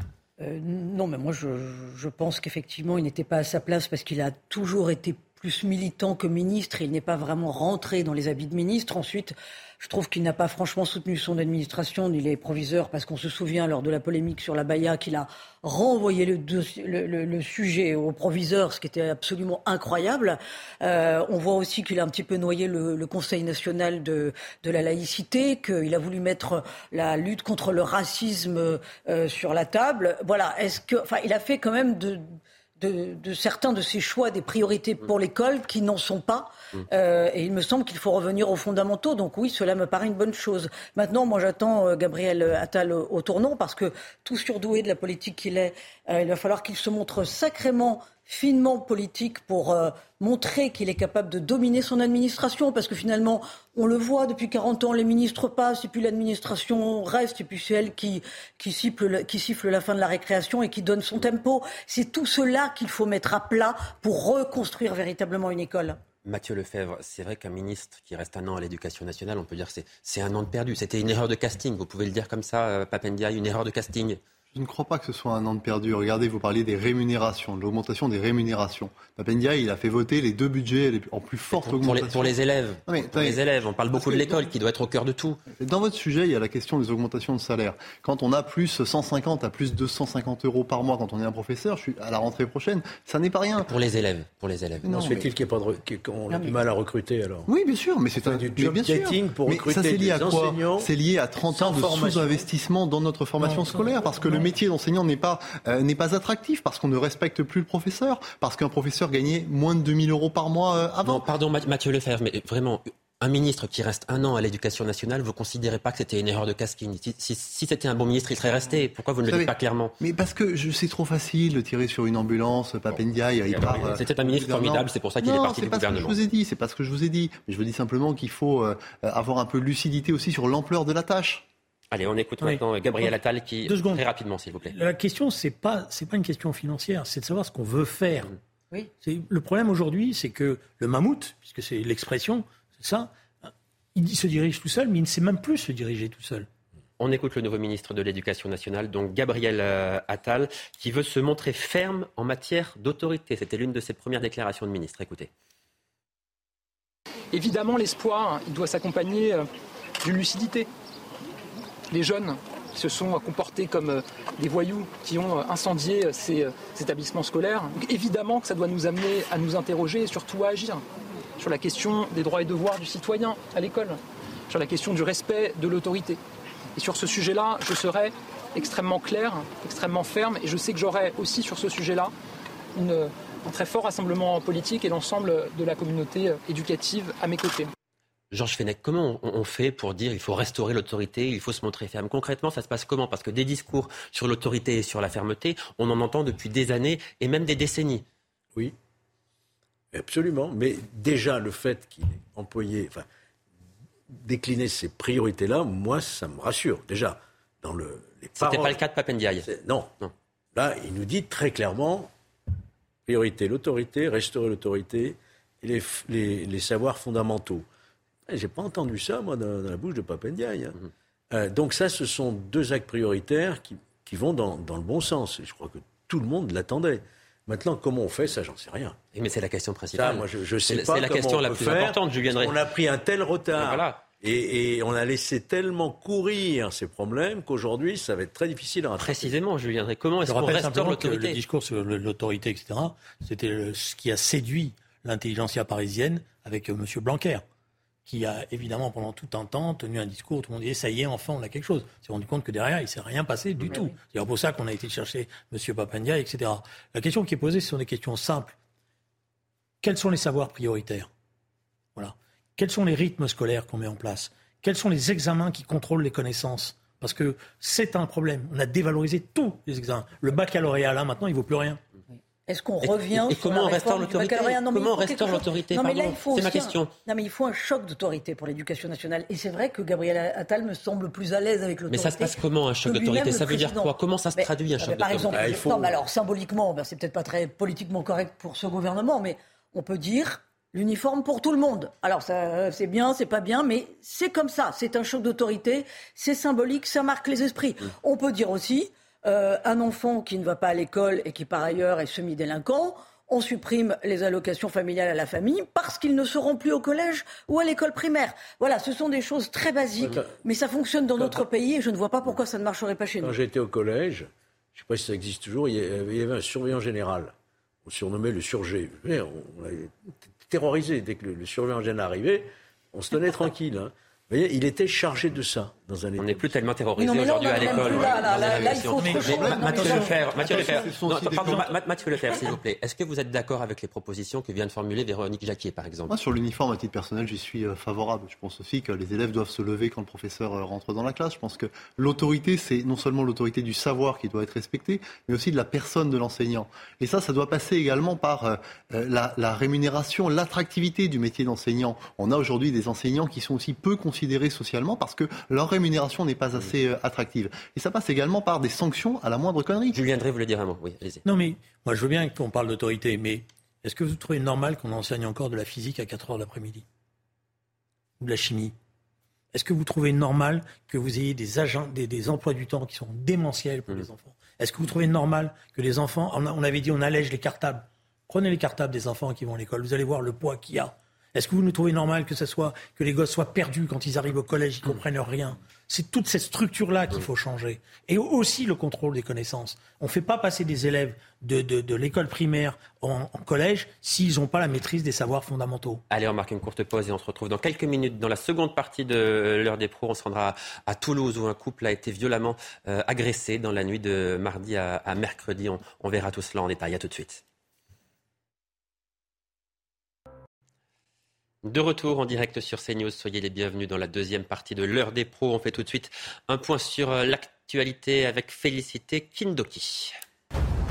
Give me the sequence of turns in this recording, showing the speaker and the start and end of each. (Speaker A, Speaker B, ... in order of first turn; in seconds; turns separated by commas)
Speaker A: 0.4-66.0, Speaker B: 66.2-74.2, Speaker C: 74.5-83.4, Speaker B: 81.5-85.4, Speaker C: 84.0-84.5, Speaker C: 85.5-93.7, Speaker B: 93.6-94.8, Speaker C: 94.8-95.3, Speaker D: 94.9-97.5, Speaker C: 97.5-111.3, Speaker D: 98.2-100.9, Speaker D: 101.5-102.5, Speaker E: 103.4-104.5, Speaker B: 111.0-119.9, Speaker C: 119.3-131.4, Speaker B: 123.5-126.2, Speaker B: 131.9-134.8, Speaker E: 132.4-133.1, Speaker E: 133.6-134.0, Speaker E: 134.7-138.3, Speaker E: 139.0-146.5, Speaker B: 147.0-155.3, Speaker F: 157.3-159.5, Speaker F: 160.0-160.7, Speaker F: 161.9-170.8, Speaker F: 171.4-176.2, Speaker F: 176.8-182.1, Speaker F: 182.7-187.7, Speaker B: 188.3-198.0, Speaker D: 199.9-203.1, Speaker D: 204.1-208.8, Speaker B: 208.4-209.5, Speaker D: 209.4-209.9, Speaker D: 210.5-212.1, Speaker D: 213.1-217.6, Speaker D: 218.3-220.8, Speaker D: 221.3-229.0, Speaker B: 229.1-232.6, Speaker D: 229.9-239.3, Speaker B: 233.6-234.1, Speaker B: 239.0-241.4, Speaker E: 240.2-247.4, Speaker E: 248.1-258.5, Speaker E: 259.8-261.1, Speaker E: 261.9-271.8, Speaker A: 272.5-313.3, Speaker B: 272.8-276.9, Speaker B: 281.9-285.6, Speaker D: 285.3-285.9, Speaker D: 310.0-310.3, Speaker D: 311.2-311.4, Speaker D: 313.2-317.3, Speaker D: 317.8-326.5, Speaker B: 326.2-336.1, Speaker A: 327.0-330.1, Speaker C: 327.6-331.7, Speaker E: 328.9-330.8, Speaker C: 336.1-360.0, Speaker B: 359.9-361.2, Speaker E: 361.2-366.8, Speaker E: 368.2-368.7, Speaker E: 369.5-396.0, Speaker B: 396.1-407.4, Speaker B: 411.6-420.1